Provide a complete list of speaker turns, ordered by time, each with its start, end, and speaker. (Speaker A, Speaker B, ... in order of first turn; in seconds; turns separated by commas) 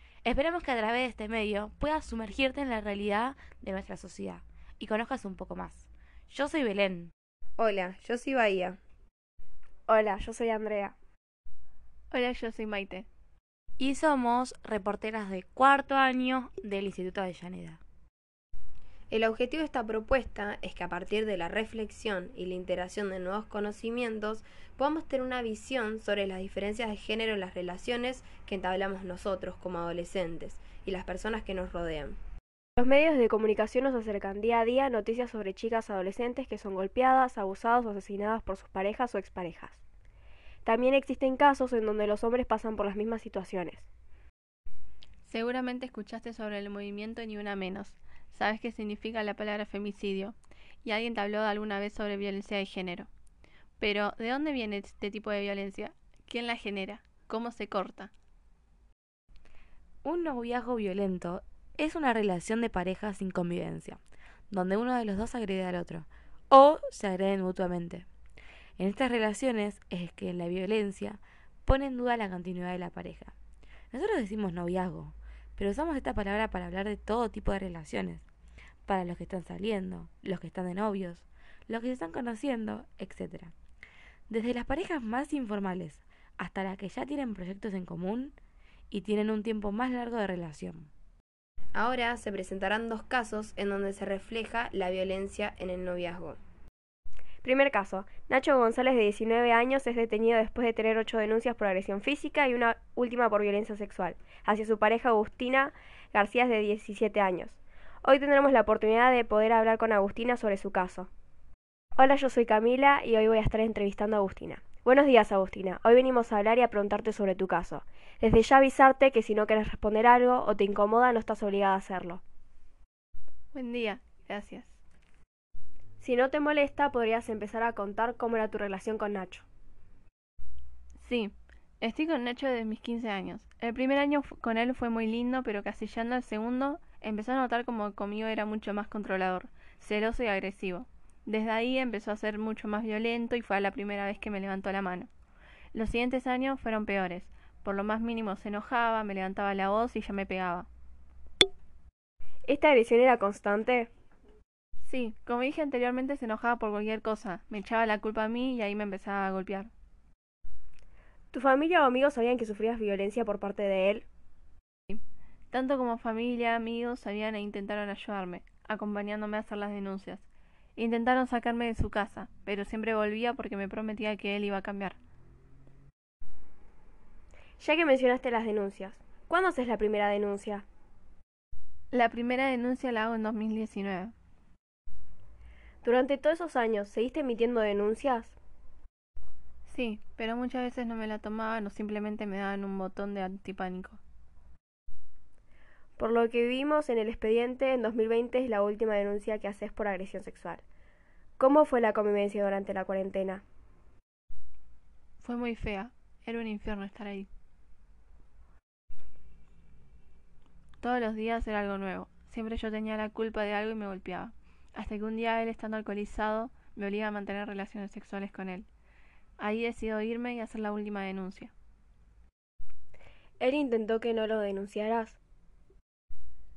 Speaker A: 0.2-7.1, Speaker B: 7.6-8.8, Speaker C: 9.9-11.0, Speaker D: 12.1-13.1, Speaker A: 13.8-17.8, Speaker B: 19.1-32.2, Speaker C: 32.8-39.8, Speaker C: 40.6-43.9, Speaker D: 45.2-53.1, Speaker D: 53.8-58.1, Speaker A: 60.0-68.1, Speaker A: 68.8-73.3, Speaker A: 73.9-78.2, Speaker A: 78.9-83.5, Speaker A: 84.3-88.3, Speaker A: 88.9-90.9, Speaker B: 91.8-96.4, Speaker C: 97.4-111.1, Speaker C: 112.0-122.2, Speaker D: 123.5-124.8, Speaker C: 126.0-129.4, Speaker D: 131.0-145.1, Speaker D: 145.7-150.7, Speaker C: 152.4-153.9, Speaker D: 154.8-159.7, Speaker C: 161.3-164.1, Speaker D: 164.9-175.0, Speaker C: 177.6-180.7, Speaker D: 181.9-184.1, Speaker C: 185.8-188.3, Speaker D: 189.7-194.0, Speaker C: 196.0-200.6, Speaker C: 201.4-203.4, Speaker D: 205.2-207.3, Speaker D: 210.8-218.7, Speaker D: 219.4-221.5, Speaker C: 223.4-225.2